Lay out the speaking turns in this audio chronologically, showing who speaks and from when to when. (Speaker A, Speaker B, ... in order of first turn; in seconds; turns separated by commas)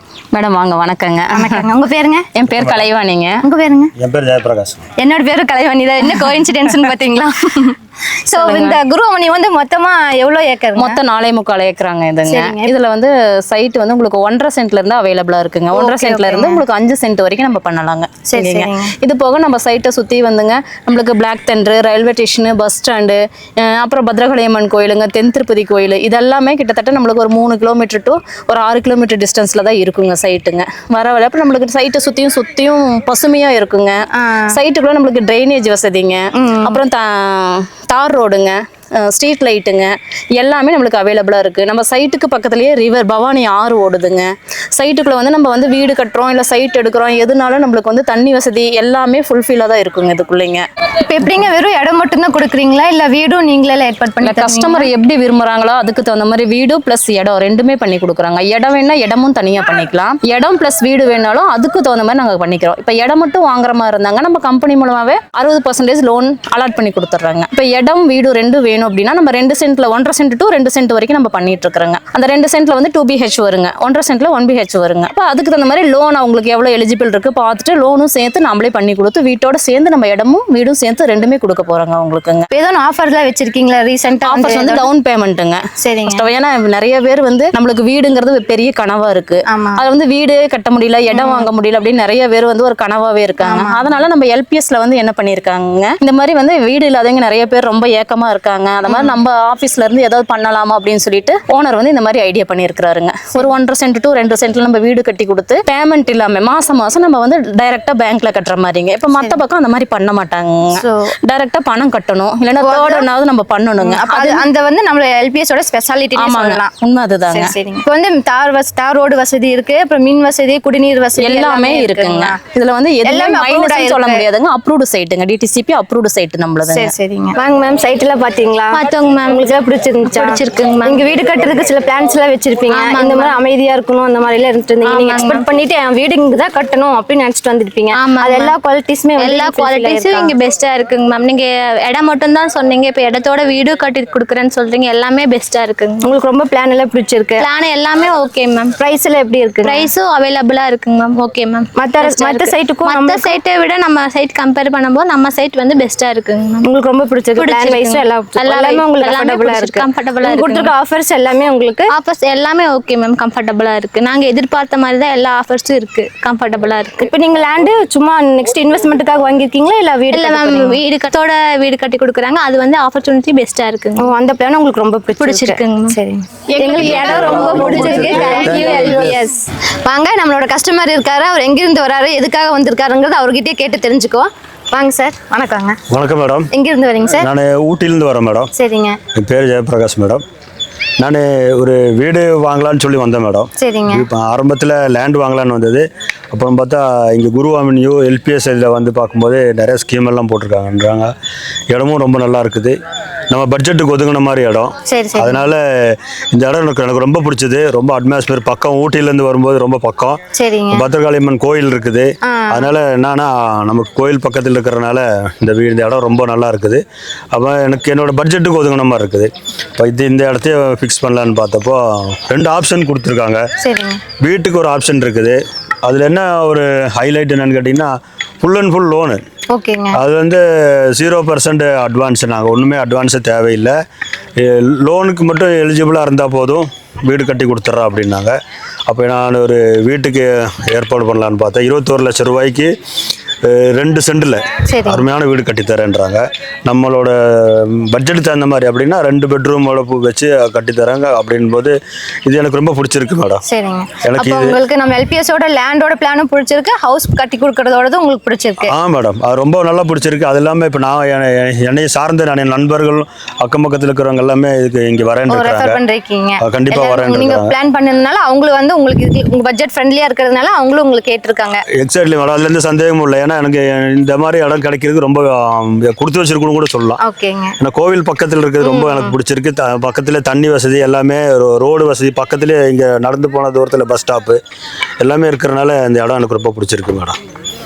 Speaker A: 0.3-1.6, Speaker B: 1.3-2.3, Speaker A: 2.4-3.4, Speaker C: 2.6-2.9, Speaker B: 3.4-3.9, Speaker C: 4.0-4.8, Speaker B: 5.0-11.0, Speaker A: 8.3-8.8, Speaker A: 10.8-34.0, Speaker B: 12.2-12.7, Speaker B: 15.7-16.6, Speaker B: 18.3-18.9, Speaker B: 34.1-34.6, Speaker A: 34.5-50.6, Speaker B: 36.4-36.8, Speaker B: 51.1-54.9, Speaker A: 54.2-82.5, Speaker B: 82.5-84.9, Speaker A: 84.2-114.5, Speaker B: 85.8-86.3, Speaker B: 89.5-89.8, Speaker B: 91.1-91.5, Speaker B: 93.4-94.0, Speaker B: 98.9-99.2, Speaker B: 109.2-109.4, Speaker B: 110.7-111.1, Speaker B: 112.6-113.1, Speaker B: 113.8-116.7, Speaker A: 116.2-117.5, Speaker B: 117.3-122.4, Speaker A: 121.2-126.9, Speaker B: 123.0-124.3, Speaker B: 126.7-140.3, Speaker D: 128.7-129.5, Speaker D: 130.1-131.0, Speaker D: 132.7-133.3, Speaker D: 134.9-135.4, Speaker D: 137.9-138.5, Speaker D: 139.2-146.1, Speaker B: 146.0-147.4, Speaker D: 147.4-148.8, Speaker B: 148.8-149.9, Speaker D: 149.6-156.7, Speaker B: 151.8-153.4, Speaker B: 156.7-161.9, Speaker D: 157.4-160.7, Speaker D: 161.9-167.1, Speaker B: 167.0-170.8, Speaker D: 170.1-174.1, Speaker B: 174.0-185.8, Speaker D: 175.2-176.0, Speaker A: 176.5-179.0, Speaker C: 176.8-179.2, Speaker D: 178.4-178.8, Speaker C: 185.9-186.5, Speaker B: 186.5-187.3, Speaker C: 187.2-188.5, Speaker B: 188.5-189.0, Speaker C: 189.1-190.2, Speaker C: 191.0-201.1, Speaker B: 193.6-194.1, Speaker C: 201.7-202.8, Speaker C: 203.3-210.2, Speaker B: 204.9-205.5, Speaker B: 210.3-210.9, Speaker C: 210.7-223.4, Speaker B: 212.2-212.7, Speaker B: 223.6-224.0, Speaker C: 224.2-229.2, Speaker B: 229.5-230.0, Speaker C: 229.9-233.8, Speaker C: 234.4-238.4, Speaker C: 238.9-242.7, Speaker C: 243.4-253.4, Speaker B: 244.7-245.1, Speaker B: 253.4-258.7, Speaker C: 254.0-254.6, Speaker C: 258.6-265.8, Speaker B: 265.3-271.6, Speaker C: 266.4-267.5, Speaker C: 271.7-277.0, Speaker B: 277.0-277.6, Speaker C: 277.6-284.4, Speaker B: 278.6-279.2, Speaker C: 285.0-287.2